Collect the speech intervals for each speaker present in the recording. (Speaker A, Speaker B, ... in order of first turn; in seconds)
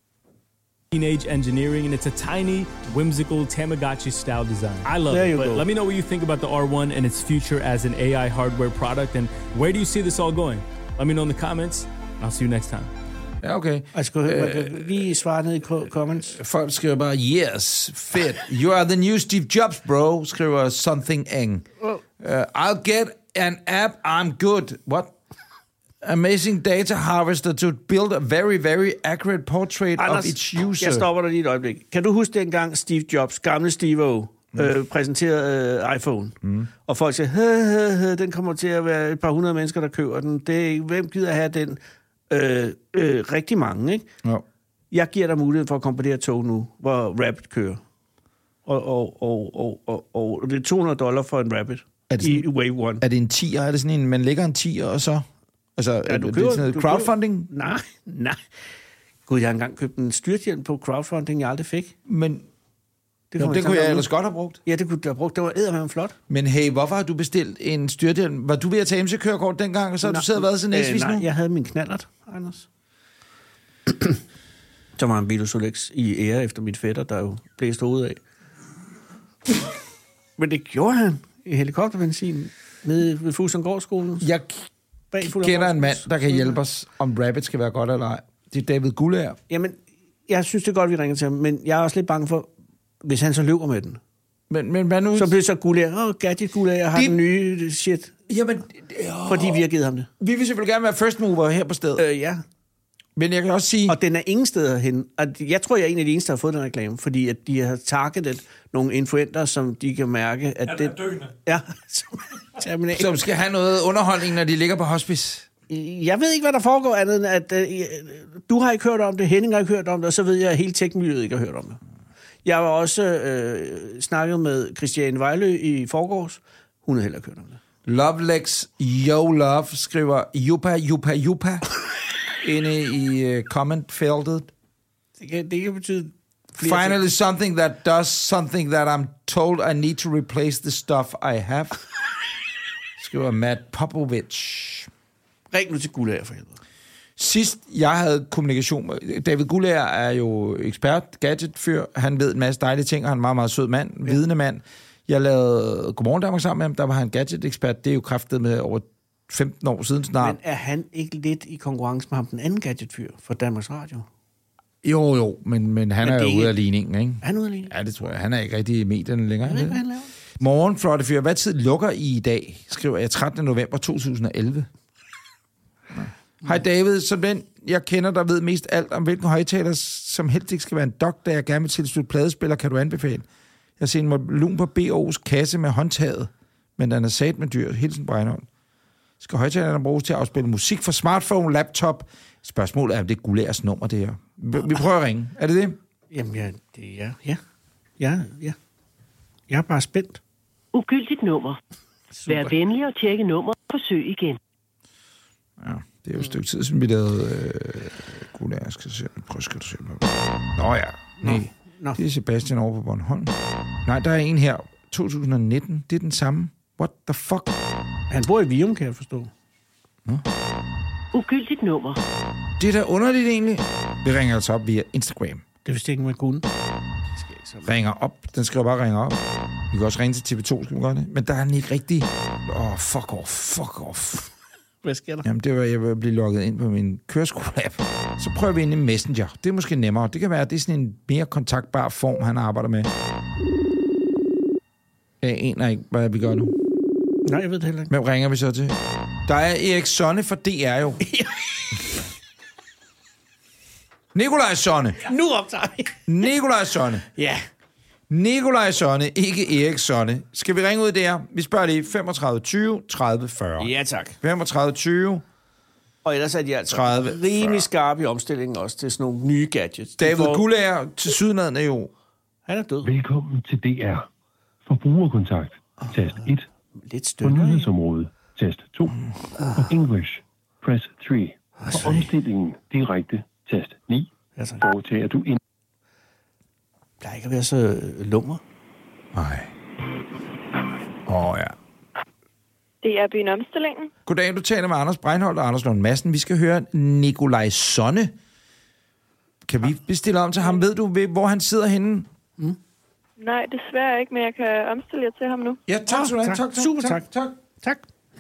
Speaker A: 0.9-12.9
Speaker B: 5.1-5.6, 13.9-16.4, 30.0-44.0, 44.9-47.8, 48.6-53.0, 56.0-58.4, 59.3-61.9, 63.3-64.1, 64.6-66.2, 70.0-72.7, 73.9-74.2, 75.0-78.2, 80.4-84.3, 85.1-86.5, 89.5-89.8, 90.3-92.5, 93.0-94.0, 95.1-98.1, 99.3-100.1, 102.0-102.4, 103.9-113.1, 115.7-121.8, 122.5-127.6, 135.2-137.0, 145.5-146.6, 160.2-164.1, 166.0-166.5, 167.2-167.7, 169.4-170.1, 196.1-197.4, 198.0-198.6, 199.5-200.2, 202.2-202.5, 211.2-212.0, 218.1-219.3, 225.6-226.4, 227.2-227.7, 234.8-235.3, 247.2-247.9, 251.0-251.8, 255.1-256.0, 257.1-257.4, 263.6-264.2, 266.1-270.4, 272.5-272.9, 276.8-277.7, 279.4-279.7, 281.6-282.1, 284.4-284.6, 287.0-288.4, 305.9-307.1, 307.6-307.9
Speaker C: 13.4-15.1, 16.2-21.6, 22.2-25.1, 26.0-31.1, 36.4-36.7, 52.1-52.5, 53.0-55.3, 55.8-57.5, 62.0-62.5, 63.4-64.6, 66.3-71.3, 84.2-84.7, 85.2-89.4, 94.5-95.4, 96.9-97.2, 98.3-99.6, 100.2-102.0, 103.2-104.0, 113.0-115.5, 127.9-131.6, 132.4-134.5, 136.6-141.8, 143.0-144.9, 147.2-160.4, 164.8-169.8, 170.4-174.7, 175.9-183.3, 183.8-188.5, 189.2-195.8, 205.6-213.3, 213.8-217.6, 222.6-225.4, 227.6-229.2, 229.7-234.3, 235.2-242.9, 245.2-246.6, 247.9-251.1, 254.1-255.1, 256.1-257.1, 258.1-263.7, 264.2-265.2, 266.7-267.7, 270.0-271.9, 289.1-289.5, 291.1-291.6, 294.1-298.1, 299.4-302.1, 305.7-307.3
Speaker D: 200.7-201.6, 202.3-204.4, 221.1-222.0
Speaker E: 272.8-274.1, 274.6-276.5, 277.2-284.1, 284.6-285.4
Speaker F: 292.8-293.9, 303.2-305.6